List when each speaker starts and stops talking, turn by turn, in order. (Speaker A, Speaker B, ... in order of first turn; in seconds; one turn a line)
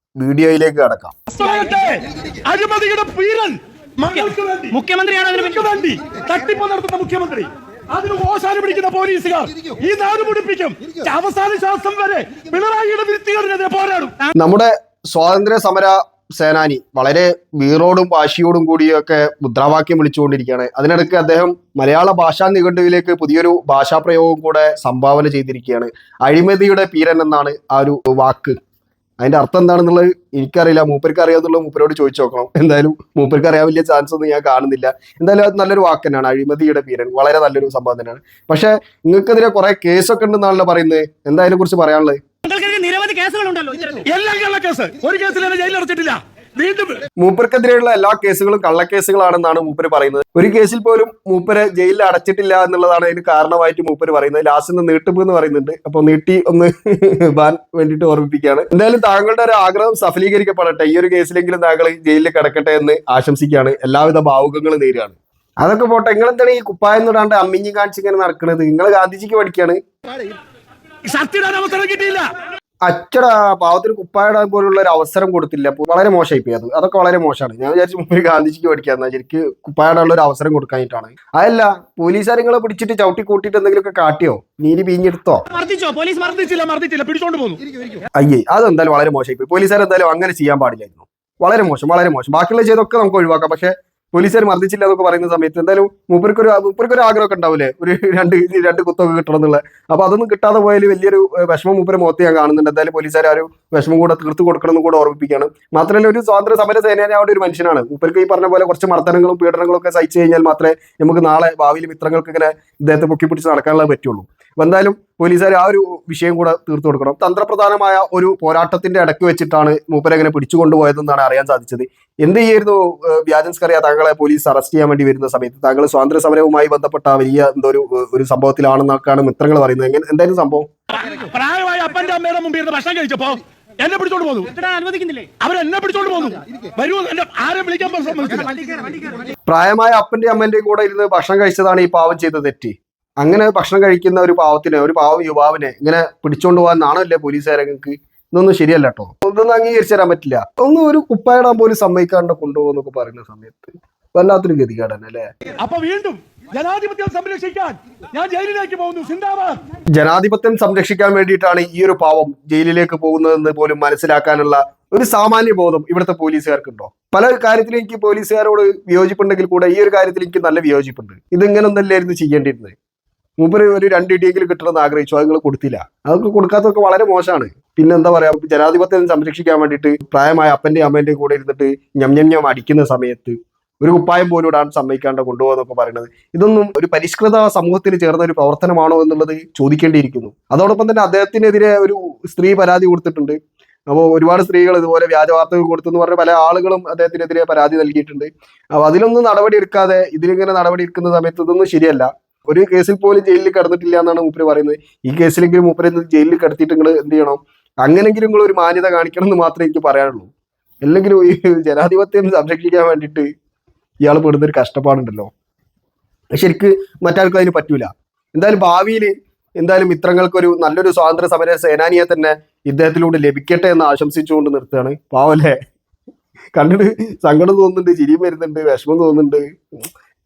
Speaker A: 0.2-1.1
Speaker B: 1.3-14.2
Speaker C: 4.7-5.6
Speaker A: 14.3-28.6
Speaker A: 29.2-42.2
Speaker C: 42.4-44.0
Speaker B: 44.0-47.0
Speaker A: 47.2-69.8
Speaker B: 71.1-72.3
Speaker A: 72.8-85.4
Speaker B: 85.5-87.6
Speaker A: 88.2-130.7
Speaker B: 130.9-134.6
Speaker C: 134.6-135.3
Speaker B: 135.3-138.9
Speaker A: 139.4-155.3
Speaker B: 155.6-159.6
Speaker A: 159.9-172.8
Speaker A: 173.4-193.4
Speaker A: 193.9-210.3
Speaker A: 210.8-213.3
Speaker A: 214.0-215.3
Speaker A: 216.3-225.6
Speaker A: 226.5-229.8